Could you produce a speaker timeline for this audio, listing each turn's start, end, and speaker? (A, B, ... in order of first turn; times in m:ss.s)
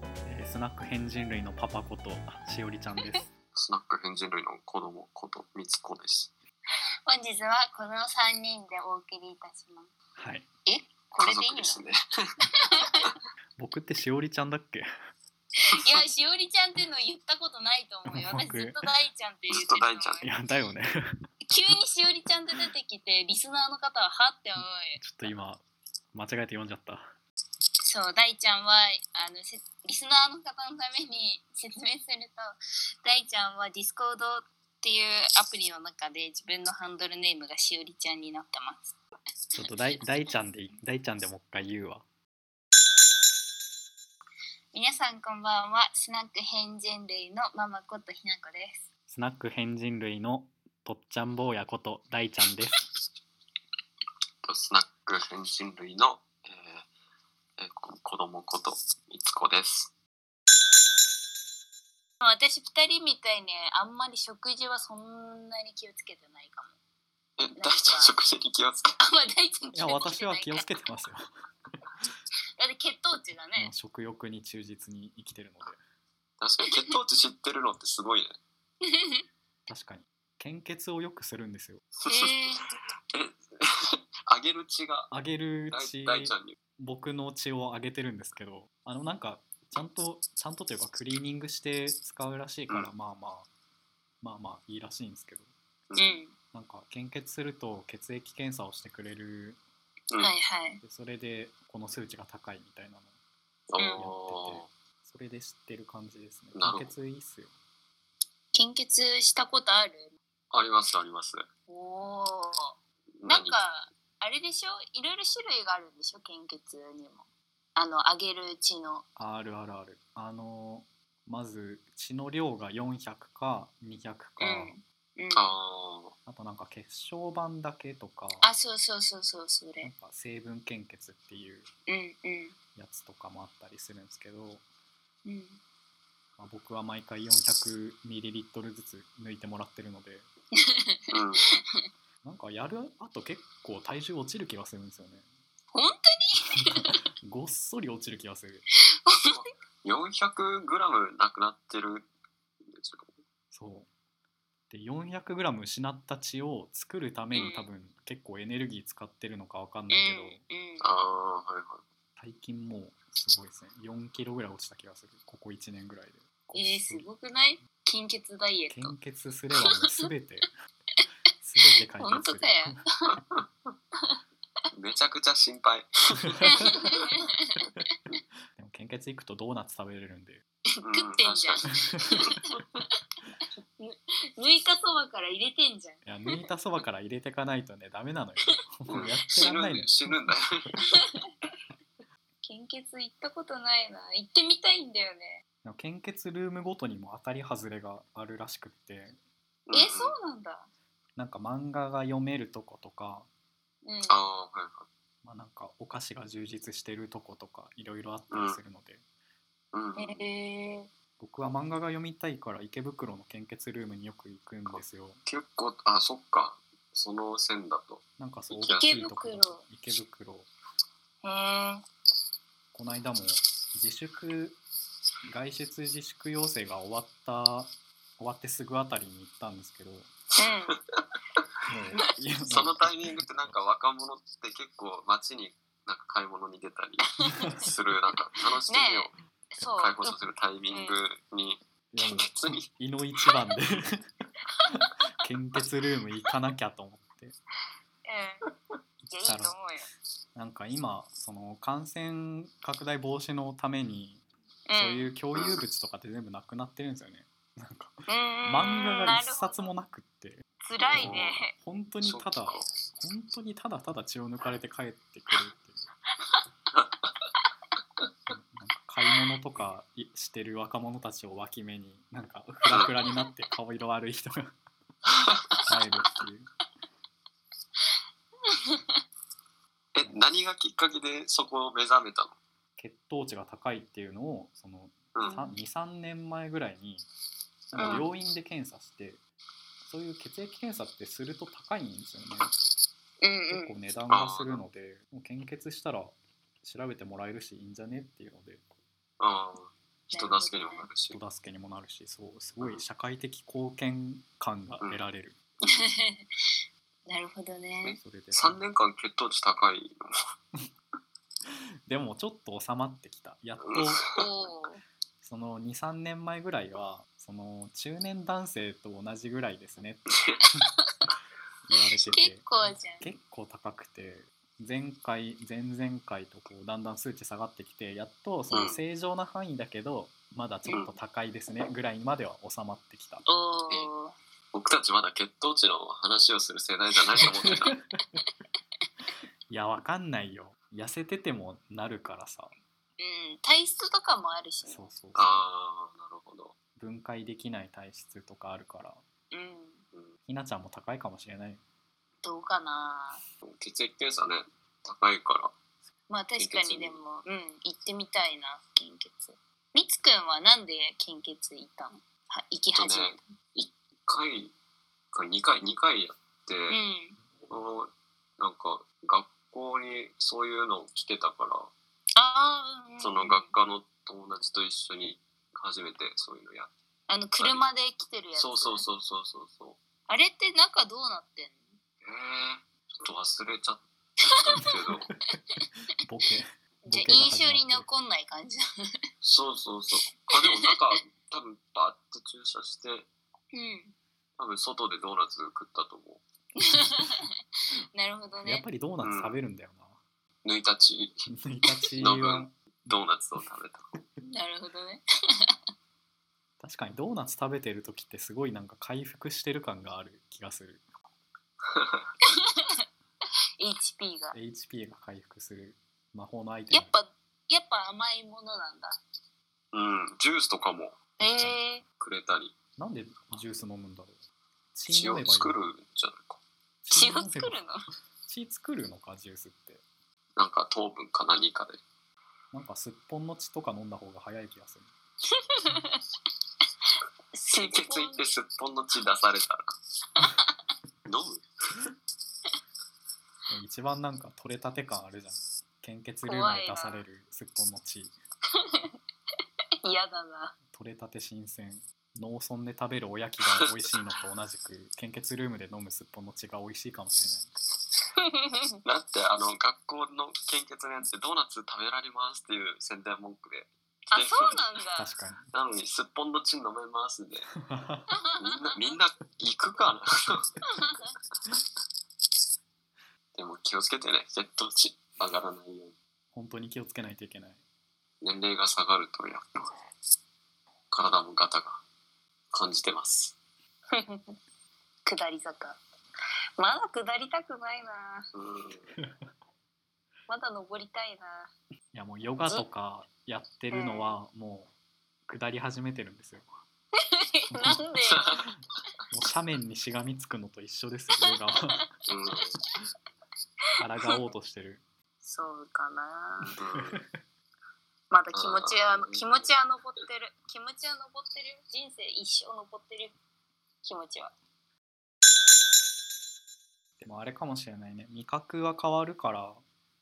0:00.2-0:03.2 A
0:03.5-0:06.3 B
0:07.0-0:09.9 C
0:10.2-0:10.4 A
0:10.6-0:11.8 C
0:11.2-0:12.3 B
0:12.6-0:13.1 C
0:13.6-0:14.9 A
0:15.6-0:20.3 C
0:18.1-0:18.8 A
0:19.5-0:20.2 B
0:20.2-0:21.2 A
0:21.4-0:25.0 C
0:25.0-0:27.1 A
0:27.8-0:38.9 C
0:39.5-0:42.0 A
0:44.7-0:48.8 C
0:49.1-0:52.8 A
0:54.4-0:56.8 B
0:57.6-0:59.9 B
1:02.2-1:06.7 C
1:07.4-1:08.9 B
1:07.5-1:08.1 C
1:09.0-1:10.7 C
1:09.7-1:11.3 A
1:12.6-1:13.7 C
1:13.6-1:15.8 A
1:16.4-1:18.4 B
1:18.8-1:19.2 C
1:19.7-1:21.8 A
1:22.0-1:22.4 B
1:22.0-1:22.7 C
1:23.1-1:25.1 B
1:25.1-1:33.5 A
1:25.7-1:26.6 B
1:34.2-1:35.5 A
1:35.9-1:36.2 B
1:36.0-1:36.4 C
1:36.5-1:39.6 A
1:40.2-1:40.8 C
1:40.8-1:43.1 A
1:43.7-1:44.7 B
1:43.8-1:44.1 C
1:44.0-1:47.5 A
1:46.6-1:46.9 B
1:48.5-1:50.1 C
1:50.5-1:51.5 B
1:51.7-1:59.0 C
1:53.2-1:53.6 B
1:59.2-2:04.7 A
2:04.4-2:05.5 C
2:05.3-2:06.1 B
2:06.2-2:08.4 A
2:08.4-2:09.9 C
2:09.8-2:11.7 A
2:11.9-2:12.6 C
2:12.8-2:14.6 A
2:15.2-2:15.6 C
2:16.4-2:20.3 A
2:20.6-2:21.0 C
2:21.1-2:21.5 B
2:22.2-2:25.2 A
2:25.7-2:27.0 C
2:26.6-2:28.6 A
2:29.0-2:29.5 C
2:29.3-2:32.1 B
2:32.6-2:33.1 B
2:33.5-2:33.9 A
2:34.7-2:40.4 A
2:37.3-2:37.7 C
2:39.9-2:40.9 C
2:40.8-2:41.8 B
2:42.2-2:47.1 A
2:46.5-2:48.9 C
2:48.7-2:50.5 A
2:49.6-2:49.9 C
2:51.4-2:52.8 A
2:51.6-2:53.1 C
2:53.2-2:53.4 B
2:54.7-2:56.5 B
2:56.3-2:56.5 A
2:56.4-2:57.8 C
2:58.5-3:00.4 A
3:00.8-3:02.8 C
3:00.8-3:02.3 B
3:01.8-3:02.1 A
3:03.8-3:06.4 C
3:06.0-3:10.3 A
3:08.9-3:10.8 B
3:10.8-3:11.3 C
3:12.4-3:15.4 C
3:15.6-3:19.2 A
3:19.7-3:20.2 B
3:19.7-3:20.7 C
3:21.2-3:23.3 A
3:23.8-3:24.2 C
3:24.0-3:24.9 B
3:25.2-3:29.0 A
3:28.3-3:28.6 B
3:29.7-3:30.2 B
3:30.0-3:30.9 C
3:31.2-3:35.2 A
3:34.7-3:38.9 B
3:38.2-3:40.5 A
3:38.6-3:39.6 C
3:41.2-3:41.8 C
3:42.7-3:44.6 A
3:45.2-3:50.1 A
3:50.4-3:50.8 C
3:51.7-3:53.6 A
3:52.5-3:59.1 B
3:57.2-3:57.7 C
3:58.7-4:00.1 C
3:59.7-4:02.7 B
4:00.7-4:01.0 C
4:01.9-4:04.1 A
4:04.6-4:04.9 C
4:04.7-4:07.4 A
4:08.0-4:08.4 C
4:09.1-4:09.9 C
4:09.2-4:09.6 A
4:10.3-4:14.2 A
4:14.7-4:15.1 C
4:14.7-4:25.8 A
4:18.1-4:19.7 C
4:20.6-4:21.5 C
4:20.8-4:21.3 B
4:22.0-4:22.7 B
4:28.3-4:34.5 A
4:32.8-4:33.3 C
4:35.1-4:35.6 B
4:35.7-4:36.5 A
4:38.4-4:39.0 C
4:39.9-4:42.4 B
4:42.8-4:47.0 A
4:45.1-4:45.4 B
4:45.2-4:45.6 C
4:47.7-4:49.2 A
4:47.7-4:48.1 B
4:47.8-4:48.0 C
4:49.8-4:52.5 A
4:53.2-4:53.7 C
4:53.5-4:58.6 A
4:54.1-4:54.6 B
4:59.2-5:01.2 B
5:00.1-5:00.9 C
5:01.1-5:05.4 A
5:05.6-5:06.2 C
5:07.1-5:08.0 C
5:07.8-5:10.2 B
5:08.0-5:08.6 A
5:11.5-5:14.0 A
5:13.6-5:14.2 B
5:14.1-5:14.8 C
5:15.2-5:20.1 A
5:20.1-5:20.4 B
5:21.7-5:33.2 A
5:21.9-5:23.1 C
5:28.5-5:28.8 B
5:30.7-5:30.9 B
5:33.2-5:34.1 C
5:34.5-5:37.8 B
5:37.4-5:37.9 A
5:39.5-5:42.5 A
5:43.0-5:44.9 C
5:44.6-5:45.5 A
5:45.1-5:46.6 B
5:46.8-5:49.0 A
5:49.3-5:49.8 C
5:50.3-5:51.6 A
5:52.2-5:53.2 C
5:53.4-5:55.5 B
5:56.1-6:03.3 C
5:56.4-5:57.0 B
6:02.7-6:04.5 B
6:05.1-6:06.8 B
6:06.7-6:07.2 C
6:07.5-6:11.7 B
6:12.2-6:13.5 C
6:13.0-6:16.7 B
6:17.1-6:18.8 C
6:17.4-6:17.6 B
6:18.4-6:19.8 B
6:20.1-6:21.8 C
6:22.0-6:25.1 B
6:24.5-6:24.9 C
6:26.0-6:27.9 A
6:26.8-6:28.6 C
6:29.2-6:33.1 B
6:30.3-6:30.7 C
6:33.5-6:33.9 C
6:34.4-6:36.2 B
6:36.6-6:37.3 C
6:37.9-6:38.6 C
6:38.4-6:40.0 A
6:39.0-6:39.4 B
6:40.4-6:41.2 B
6:41.3-6:43.0 A
6:42.0-6:44.0 B
6:44.2-6:45.0 C
6:46.6-6:50.8 A
6:51.6-6:52.0 B
6:52.4-6:52.8 C
6:53.6-6:54.4 C
6:54.3-6:56.9 A
6:56.7-6:59.0 C
6:59.7-7:01.0 B
7:01.2-7:01.6 A
7:01.2-7:01.8 C
7:02.0-7:02.5 B
7:02.8-7:04.2 A
7:04.7-7:05.6 A
7:04.9-7:06.4 B
7:06.8-7:07.6 A
7:06.9-7:07.8 C
7:08.2-7:09.8 A
7:10.4-7:11.8 B
7:12.5-7:14.9 A
7:15.3-7:16.0 C
7:17.3-7:18.2 C
7:17.6-7:19.7 B
7:20.2-7:20.5 C
7:21.0-7:21.4 B
7:23.5-7:28.1 A
7:26.2-7:27.0 C
7:28.5-7:28.9 C
7:29.8-7:30.5 C
7:30.7-7:37.5 A
7:38.2-7:38.8 C
7:38.8-7:44.6 B
7:44.1-7:45.1 C
7:45.0-7:45.5 A
7:45.5-7:47.5 B
7:47.6-7:48.1 A
7:48.1-7:48.9 C
7:48.4-7:50.5 B
7:50.6-7:51.1 C
7:53.3-7:55.9 B
7:56.3-7:57.6 A
7:58.2-7:59.7 B
8:00.9-8:01.8 B
8:02.5-8:03.4 B
8:03.9-8:04.4 C
8:05.0-8:05.8 C
8:06.6-8:08.3 C
8:08.3-8:08.9 B
8:10.3-8:11.5 C
8:11.9-8:14.7 A
8:13.7-8:14.2 C
8:15.3-8:16.5 A
8:17.0-8:18.4 C
8:17.5-8:17.9 A
8:18.1-8:18.5 B
8:19.1-8:21.8 A
8:21.2-8:21.8 C
8:22.1-8:22.6 B
8:23.8-8:24.8 A
8:25.2-8:26.6 C
8:26.6-8:27.0 B
8:26.7-8:27.0 A
8:28.1-8:33.2 C
8:28.3-8:29.5 B
8:33.8-8:34.3 C
8:37.0-8:39.6 A